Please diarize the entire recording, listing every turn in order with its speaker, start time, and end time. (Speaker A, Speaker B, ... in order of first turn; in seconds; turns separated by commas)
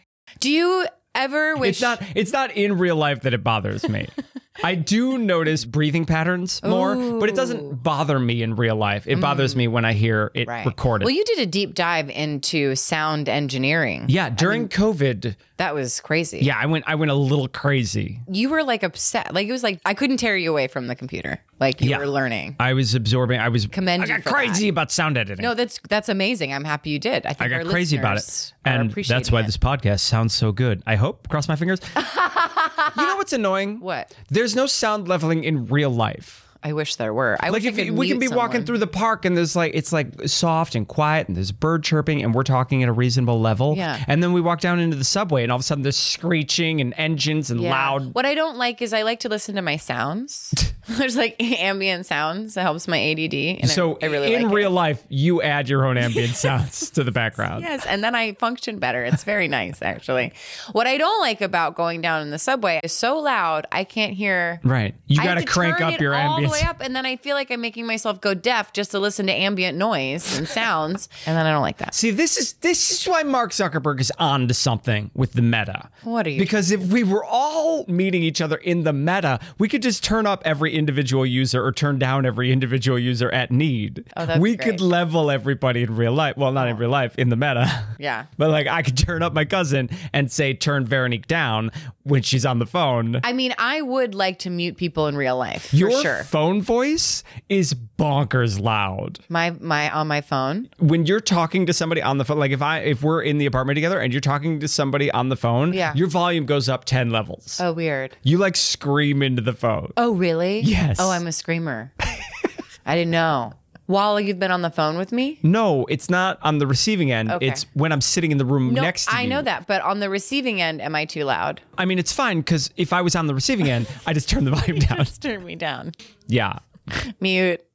Speaker A: 0.4-2.0, Speaker B: 1.6-11.1, Speaker A: 6.6-7.8, Speaker A: 9.1-9.6, Speaker A: 10.4-14.7, Speaker B: 14.1-15.4, Speaker A: 15.6-16.5, Speaker B: 16.4-18.2, Speaker A: 18.3-22.6, Speaker B: 21.8-22.1, Speaker B: 22.6-25.5, Speaker A: 23.7-24.7, Speaker A: 25.4-29.5, Speaker B: 27.4-31.9, Speaker A: 31.9-33.2, Speaker B: 32.9-36.4, Speaker A: 33.8-34.1, Speaker A: 36.6-38.7, Speaker B: 37.5-48.1, Speaker A: 43.7-44.0, Speaker A: 47.5-54.7, Speaker B: 53.6-57.7, Speaker A: 56.0-56.6, Speaker A: 57.5-64.6, Speaker B: 64.6-66.7, Speaker A: 65.2-71.9, Speaker B: 71.9-93.2, Speaker A: 76.0-76.6, Speaker A: 84.2-84.9, Speaker A: 88.0-88.3, Speaker A: 93.2-96.3, Speaker B: 95.7-99.2, Speaker A: 99.3-100.7, Speaker B: 100.8-107.6, Speaker A: 105.7-106.0, Speaker A: 107.6-108.1, Speaker B: 108.2-110.0, Speaker A: 110.0-111.9, Speaker B: 110.6-111.2, Speaker A: 112.8-115.4, Speaker B: 115.4-119.5, Speaker A: 117.3-117.6, Speaker A: 118.6-121.6, Speaker B: 121.8-125.1, Speaker A: 124.7-125.9, Speaker B: 126.3-126.6, Speaker A: 126.9-127.6